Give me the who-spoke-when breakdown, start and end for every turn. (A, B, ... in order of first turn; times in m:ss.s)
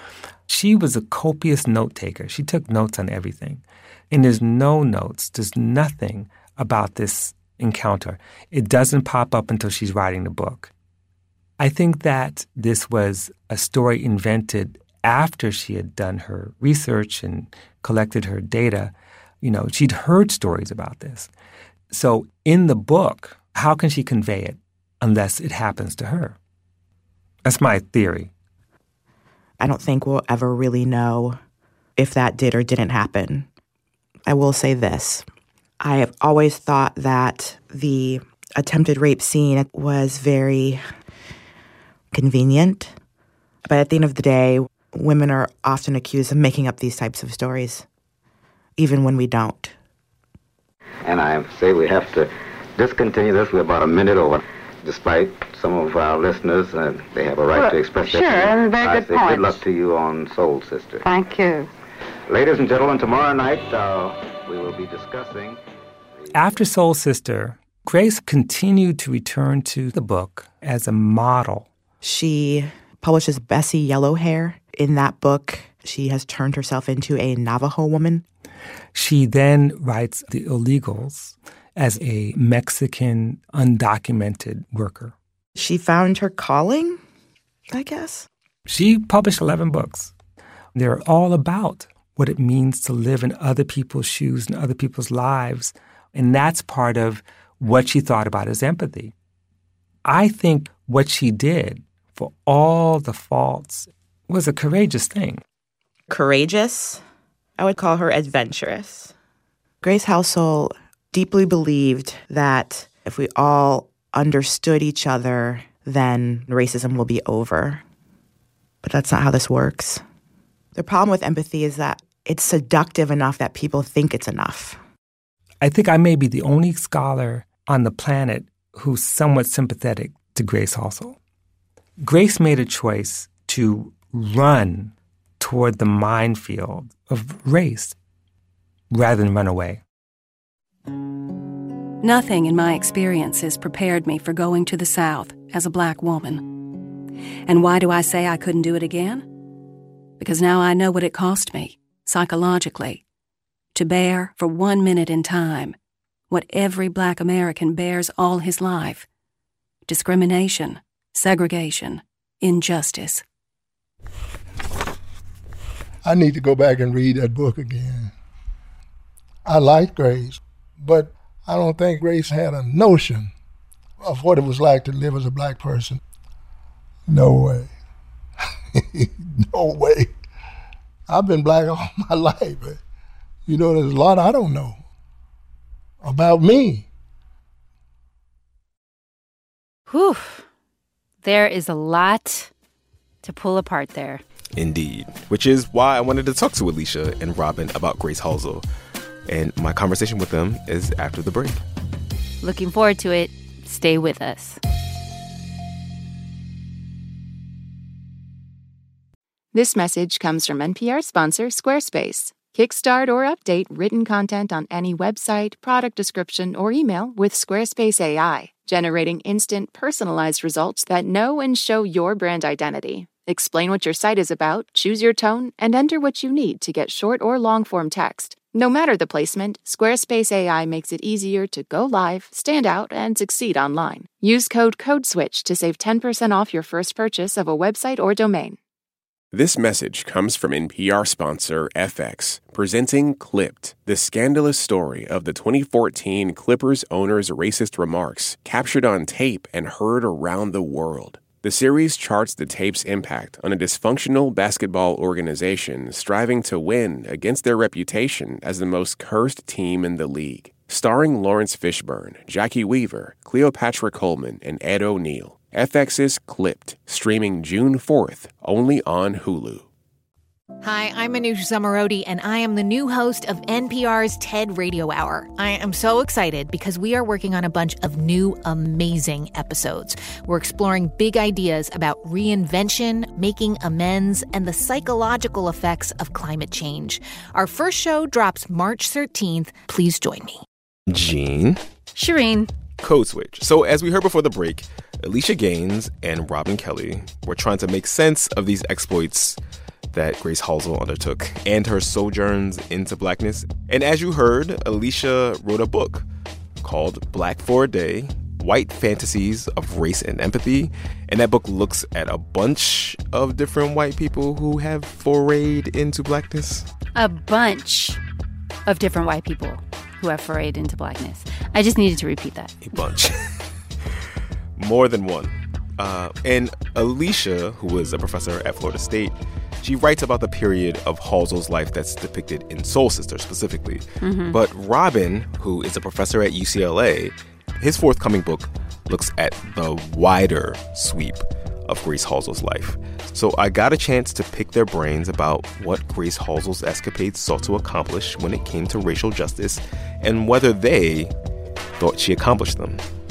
0:00.5-0:10.7 A
0:11.6-0:21.3 A
0:21.9-0:26.4 A
0:27.4-0:28.3 A
0:29.6-0:31.4 B
0:32.0-0:33.4 B
0:34.2-0:35.2 B
0:35.8-0:40.8 B
0:42.1-0:42.9 B
0:43.6-0:47.8 B
0:48.8-0:49.7 B
0:51.0-1:01.1 C
0:57.5-0:59.6 D
1:01.0-1:01.7 D
1:02.3-1:05.6 C
1:06.3-1:11.7 A
1:12.0-1:18.2 B
1:18.9-1:25.1 A
1:25.6-1:27.0 B
1:27.7-1:28.3 B
1:28.7-1:30.1 A
1:30.7-1:39.1 A
1:40.0-1:45.4 A
1:46.1-1:47.0 B
1:47.6-1:49.1 B
1:49.8-1:57.8 B
1:58.8-2:00.0 B
2:00.7-2:04.8 B
2:05.6-2:11.2 A
2:12.0-2:17.9 A
2:18.9-2:19.8 A
2:22.0-2:26.7 E
2:27.4-2:29.3 E
2:30.2-2:33.0 E
2:33.7-2:35.8 E
2:36.3-2:39.0 E
2:39.8-2:43.2 E
2:46.0-2:48.1 F
2:49.4-2:53.3 F
2:54.0-2:56.0 F
2:57.1-2:57.7 F
2:58.7-3:00.1 F
3:01.1-3:02.8 F
3:03.4-3:04.8 F
3:06.0-3:06.9 F
3:09.9-3:10.4 G
3:11.2-3:12.5 G
3:13.2-3:14.2 G
3:14.6-3:18.6 H
3:19.3-3:21.6 H
3:22.4-3:24.6 G
3:29.5-3:58.6 I
3:59.3-4:29.6 J
4:30.6-4:50.4 K
4:50.9-4:51.6 H
4:51.9-4:52.5 G
4:52.8-4:59.4 H
4:59.9-5:06.0 H
5:06.6-5:16.7 H
5:16.9-5:18.0 G
5:18.6-5:22.5 G
5:22.6-5:23.2 H
5:24.6-5:51.1 H
5:34.0-5:34.4 G
5:51.8-5:52.8 H